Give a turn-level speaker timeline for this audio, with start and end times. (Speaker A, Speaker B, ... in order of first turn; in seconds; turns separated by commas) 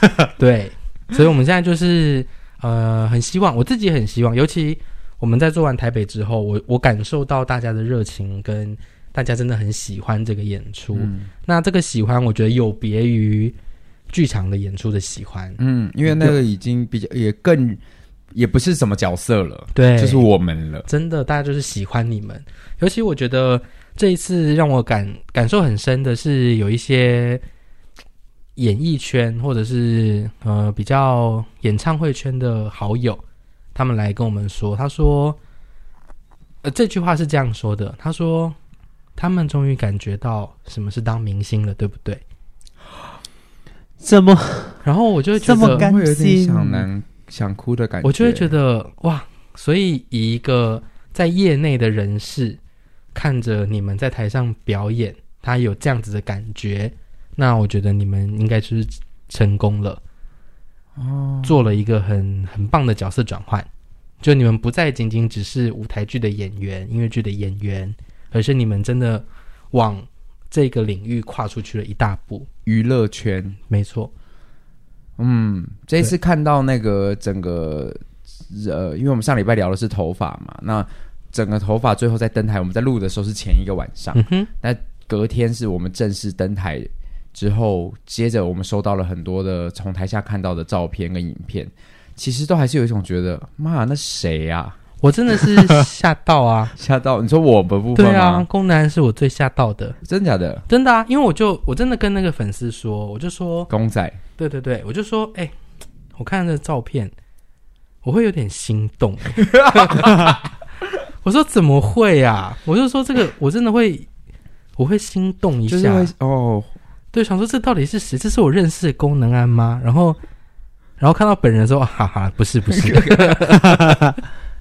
Speaker A: 0.2-13.6, Speaker B: 10.9-11.3, Speaker A: 14.1-16.4, Speaker B: 15.6-17.8, Speaker B: 18.3-20.9, Speaker A: 19.7-20.3, Speaker A: 20.9-27.4, Speaker A: 28.6-33.2, Speaker A: 33.7-35.4, Speaker A: 36.6-38.5, Speaker A: 39.1-42.2, Speaker C: 44.0-44.8, Speaker A: 44.8-45.9, Speaker C: 45.4-46.9, Speaker B: 45.4-48.5, Speaker A: 48.0-52.6, Speaker A: 53.1-60.0, Speaker B: 61.0-61.6, Speaker A: 61.4-63.7, Speaker A: 64.2-72.5, Speaker B: 72.7-73.6, Speaker A: 73.7-74.1, Speaker B: 75.2-94.8, Speaker A: 84.1-84.5, Speaker A: 95.0-96.7, Speaker B: 96.8-98.5, Speaker A: 97.9-100.0, Speaker B: 100.0-100.7, Speaker A: 100.7-103.7, Speaker B: 103.7-104.2, Speaker A: 104.4-105.5, Speaker A: 106.2-107.1, Speaker A: 108.0-110.4, Speaker B: 109.3-110.4, Speaker A: 111.2-114.1, Speaker A: 114.8-116.1, Speaker B: 115.7-116.7, Speaker A: 117.1-120.2, Speaker A: 121.0-124.1, Speaker B: 122.7-123.7